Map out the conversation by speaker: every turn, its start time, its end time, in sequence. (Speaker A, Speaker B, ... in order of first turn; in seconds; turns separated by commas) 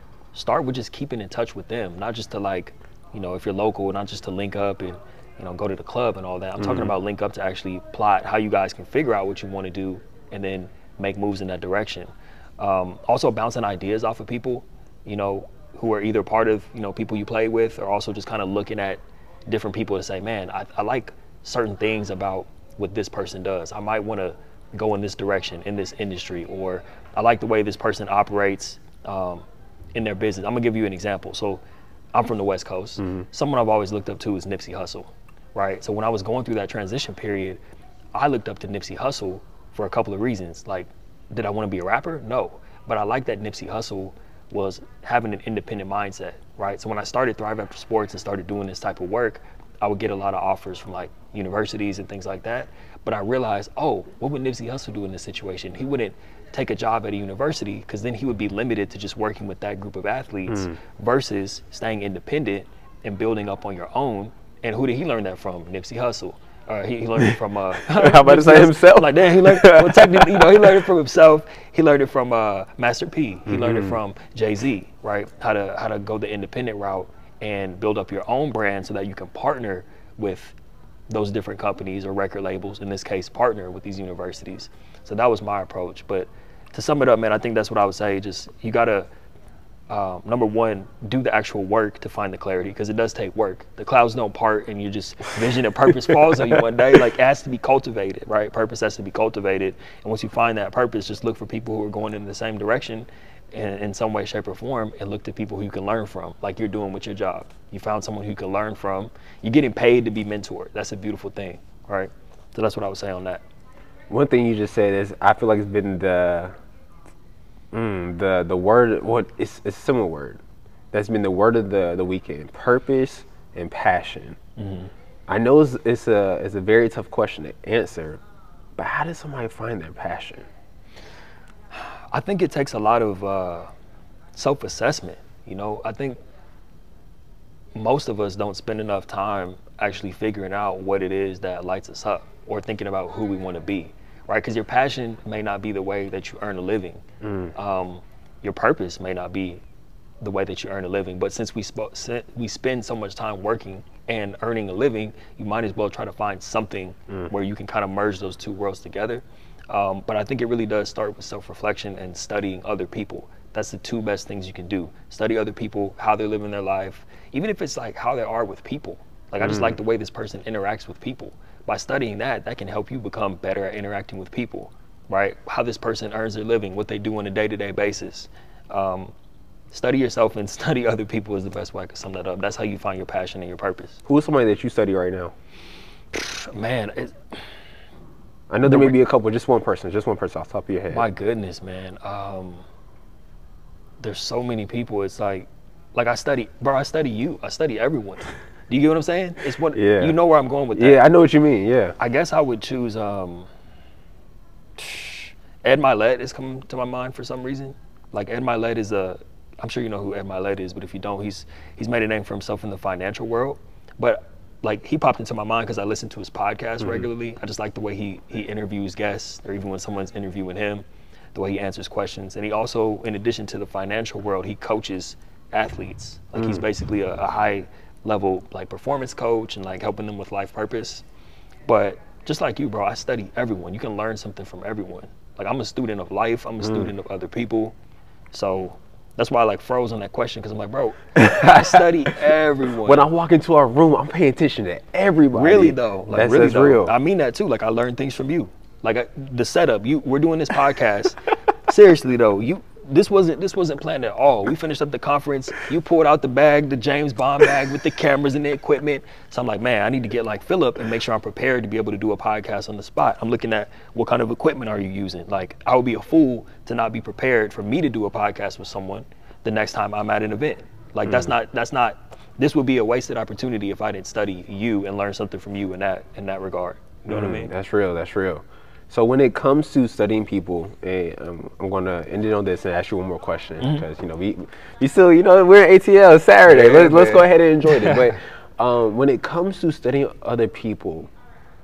Speaker A: 0.3-31.6, Speaker B: 6.6-6.9, Speaker A: 32.1-37.6, Speaker B: 33.0-33.2, Speaker A: 38.1-80.6, Speaker B: 60.5-60.8, Speaker B: 67.2-70.9, Speaker B: 73.5-74.0, Speaker A: 81.1-89.1, Speaker A: 89.9-113.4, Speaker B: 96.0-96.6, Speaker B: 114.1-116.5, Speaker B: 117.7-120.4, Speaker B: 120.9-124.4, Speaker A: 124.6-124.9, Speaker B: 125.3-128.2, Speaker B: 128.8-130.5, Speaker A: 131.7-133.7, Speaker A: 134.3-136.2, Speaker A: 137.8-147.0, Speaker B: 147.2-147.5, Speaker A: 147.6-149.6, Speaker A: 150.2-179.1, Speaker B: 169.4-169.8, Speaker A: 179.7-184.0, Speaker B: 184.1-185.3, Speaker A: 186.1-187.2, Speaker B: 188.5-191.1, Speaker A: 188.7-189.0, Speaker A: 190.9-192.7, Speaker A: 194.0-201.0, Speaker B: 199.7-200.2, Speaker B: 200.7-202.0, Speaker A: 202.0-203.5, Speaker A: 204.8-231.1, Speaker B: 216.8-217.1, Speaker B: 226.4-226.6, Speaker A: 231.7-237.8, Speaker B: 236.6-236.9, Speaker A: 238.3-243.1, Speaker B: 241.2-241.9, Speaker B: 242.8-246.9, Speaker A: 245.3-277.5, Speaker B: 271.1-271.3, Speaker B: 277.1-291.1, Speaker A: 286.5-288.1